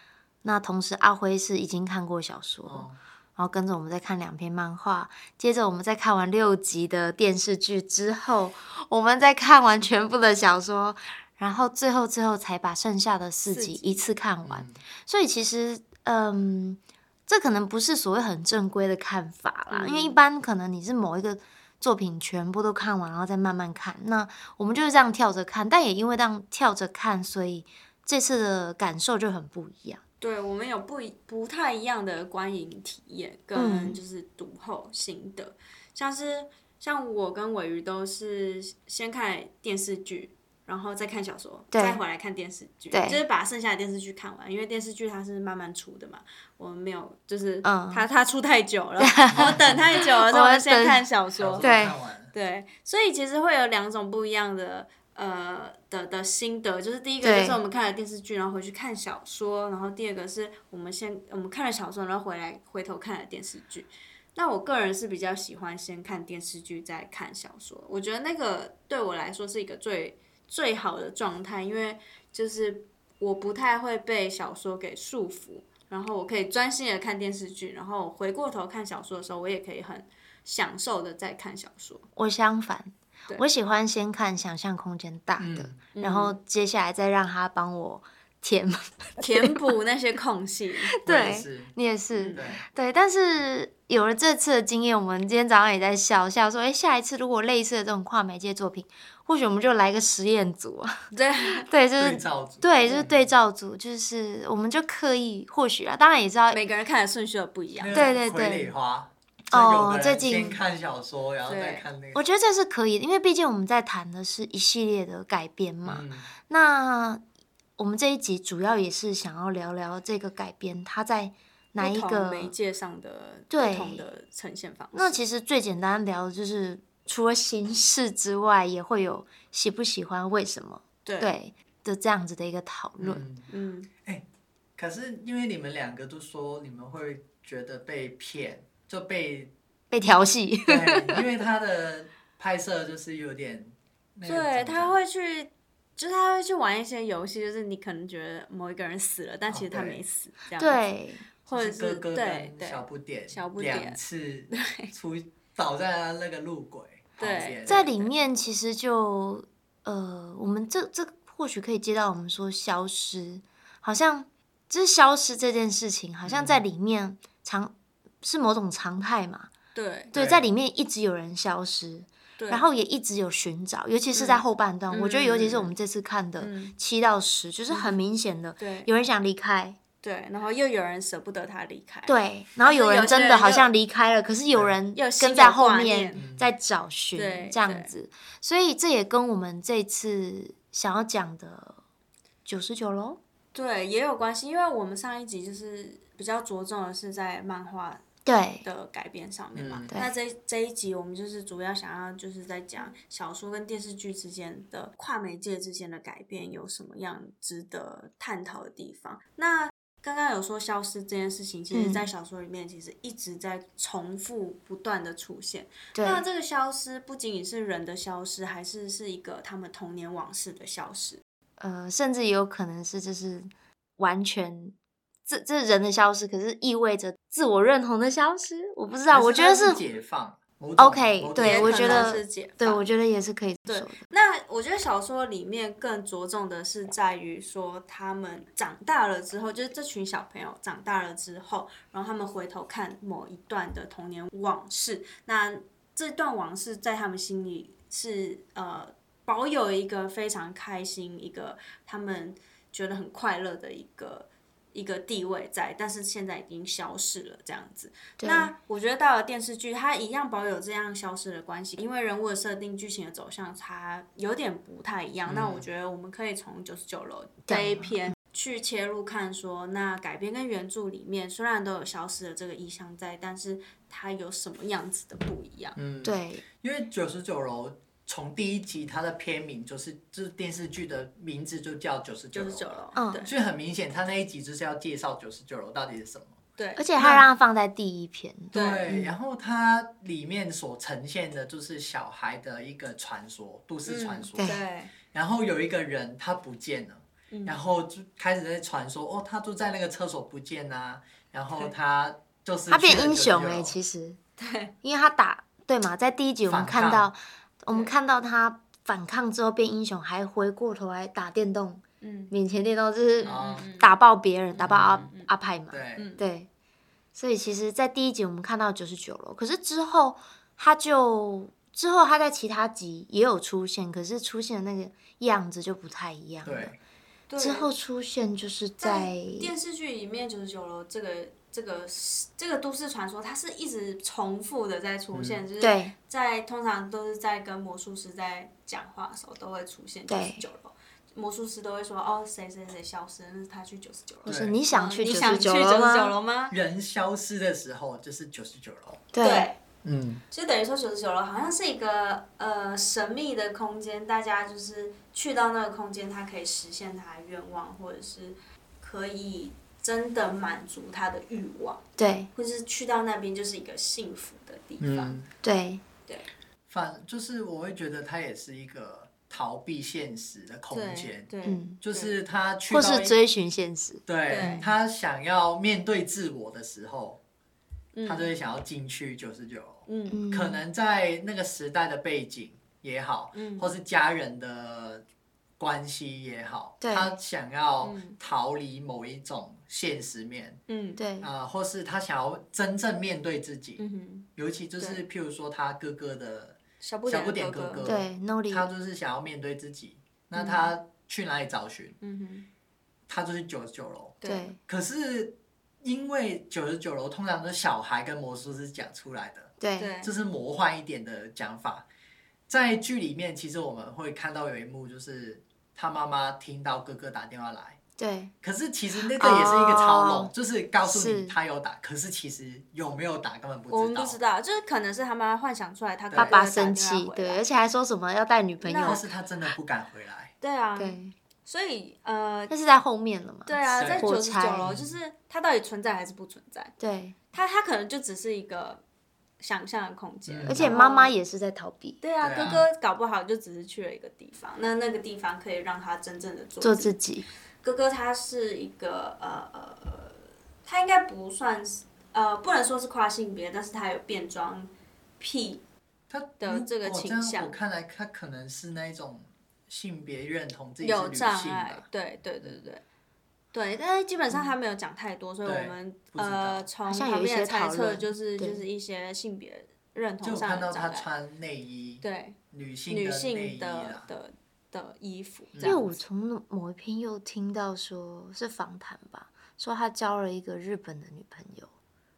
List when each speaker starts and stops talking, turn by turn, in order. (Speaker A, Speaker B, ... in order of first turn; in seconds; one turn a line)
Speaker A: 0.4-30.0
Speaker B: 2.6-3.0
Speaker C: 13.5-14.1
Speaker B: 14.4-14.8
Speaker C: 19.7-20.2
Speaker C: 30.2-51.7
Speaker A: 33.5-34.0
Speaker A: 41.7-42.0
Speaker A: 42.9-43.2
Speaker A: 47.6-48.0
Speaker A: 49.0-51.0
Speaker B: 49.3-50.0
Speaker B: 51.4-52.3
Speaker A: 51.6-52.0
Speaker C: 52.3-82.0
Speaker A: 57.2-57.6
Speaker A: 82.2-89.6
Speaker B: 85.4-85.8
Speaker C: 85.9-86.4
Speaker C: 89.2-91.0
Speaker A: 90.9-101.0
Speaker B: 91.0-91.7
Speaker C: 92.2-92.5
Speaker B: 92.3-92.6
Speaker C: 101.1-101.6
Speaker A: 101.6-106.6
Speaker B: 102.0-103.3
Speaker C: 106.5-108.2
Speaker B: 107.8-112.2
Speaker A: 107.9-108.7
Speaker A: 109.5-110.6
Speaker C: 111.5-111.9
Speaker A: 112.1-117.2
Speaker B: 115.8-116.3
Speaker A: 117.8-122.5
Speaker C: 121.8-125.2
Speaker A: 123.5-124.0
Speaker A: 124.9-133.2
Speaker C: 131.0-131.3
Speaker B: 133.0-133.5
Speaker C: 133.5-133.9
Speaker B: 134.8-139.5
Speaker A: 139.9-141.2
Speaker B: 140.7-144.9
Speaker C: 144.2-150.8
Speaker B: 149.5-150.0
Speaker A: 150.6-151.3
Speaker C: 151.4-154.0
Speaker B: 151.5-157.9
Speaker C: 154.5-154.9
Speaker C: 157.2-158.1
Speaker A: 157.7-169.5
Speaker B: 166.2-166.6
Speaker C: 169.7-170.1
Speaker A: 170.1-179.8
Speaker B: 170.1-170.5
Speaker C: 172.4-172.6
Speaker C: 174.1-175.7
Speaker C: 176.4-176.8
Speaker C: 177.7-178.0
Speaker C: 178.6-178.9
Speaker C: 180.0-183.7
Speaker A: 182.1-191.8
Speaker C: 184.9-186.2
Speaker B: 186.1-186.5
Speaker C: 187.1-187.9
Speaker A: 192.4-193.2
Speaker C: 193.5-198.0
Speaker A: 198.2-198.7
Speaker C: 198.6-221.2
Speaker B: 199.6-199.9
Speaker A: 211.7-212.0
Speaker A: 215.9-216.2
Speaker A: 221.6-229.8
Speaker B: 229.1-232.1
Speaker A: 230.8-234.0
Speaker C: 231.4-232.8
Speaker C: 233.7-275.8
Speaker A: 258.2-258.5
Speaker B: 265.3-265.6
Speaker A: 267.5-268.0
Speaker B: 275.8-286.4
Speaker A: 276.0-276.4
Speaker C: 282.3-283.3
Speaker A: 282.9-283.2
Speaker C: 286.6-286.9
Speaker A: 286.8-289.1
Speaker B: 287.0-287.2
Speaker B: 288.5-294.6
Speaker C: 288.5-288.9
Speaker C: 293.9-294.9
Speaker A: 294.4-294.6
Speaker B: 295.1-303.8
Speaker C: 297.3-297.6
Speaker A: 302.7-304.2
Speaker C: 304.4-304.7
Speaker A: 304.8-316.5
Speaker B: 306.5-307.1
Speaker C: 312.0-312.3
Speaker C: 313.2-314.0
Speaker B: 313.3-313.7
Speaker C: 314.5-315.3
Speaker B: 314.6-315.1
Speaker B: 315.7-316.1
Speaker C: 315.9-316.2
Speaker A: 317.1-326.7
Speaker B: 326.4-326.8
Speaker C: 327.3-327.7
Speaker A: 327.4-329.5
Speaker C: 328.8-346.5
Speaker B: 335.1-335.4
Speaker A: 335.6-335.9
Speaker A: 340.1-340.4
Speaker A: 344.2-346.1
Speaker B: 344.3-344.6
Speaker B: 346.5-349.1
Speaker A: 349.1-349.5
Speaker C: 349.2-349.6
Speaker B: 349.8-350.2
Speaker C: 350.3-365.2
Speaker A: 362.0-362.3
Speaker B: 364.8-365.3
Speaker A: 365.4-365.8
Speaker B: 366.7-371.3
Speaker C: 370.7-372.2
Speaker A: 371.4-371.8
Speaker B: 371.8-373.2
Speaker A: 372.7-374.6
Speaker B: 374.1-377.2
Speaker C: 374.3-374.7
Speaker C: 377.9-378.3
Speaker B: 378.1-385.0
Speaker C: 379.9-380.2
Speaker A: 380.1-380.6
Speaker C: 383.3-383.7
Speaker B: 385.6-390.6
Speaker A: 386.8-387.1
Speaker C: 387.8-388.2
Speaker C: 390.7-391.0
Speaker A: 391.0-391.3
Speaker B: 391.2-393.8
Speaker C: 393.8-394.3
Speaker B: 394.4-402.0
Speaker C: 396.8-397.9
Speaker A: 397.8-398.7
Speaker A: 400.4-400.7
Speaker C: 402.0-402.5
Speaker B: 403.1-411.9
Speaker C: 404.2-404.5
Speaker A: 404.2-404.6
Speaker A: 409.6-409.9
Speaker C: 409.8-410.1
Speaker B: 412.5-417.8
Speaker A: 418.0-418.3
Speaker B: 418.4-424.2
Speaker A: 419.2-420.3
Speaker A: 420.8-421.4
Speaker C: 423.7-427.4
Speaker B: 426.1-426.4
Speaker A: 426.1-429.0
Speaker C: 428.6-429.1
Speaker B: 428.8-430.3
Speaker C: 430.4-432.5
Speaker A: 430.8-431.1
Speaker A: 432.5-434.7
Speaker C: 433.4-436.7
Speaker B: 433.7-434.1
Speaker B: 434.6-435.0
Speaker A: 436.8-437.1
Speaker C: 437.3-438.8
Speaker C: 439.4-441.1
Speaker B: 440.3-440.7
Speaker A: 440.4-442.0
Speaker C: 442.0-446.9
Speaker B: 442.2-442.6
Speaker A: 446.6-447.2
Speaker C: 447.6-455.6
Speaker B: 456.1-461.8
Speaker C: 456.4-457.5
Speaker C: 460.8-462.8
Speaker C: 463.5-471.1
Speaker B: 465.4-466.7
Speaker A: 466.9-468.6
Speaker B: 470.2-474.1
Speaker C: 472.0-472.4
Speaker C: 472.9-475.8
Speaker B: 475.5-475.9
Speaker A: 475.6-481.7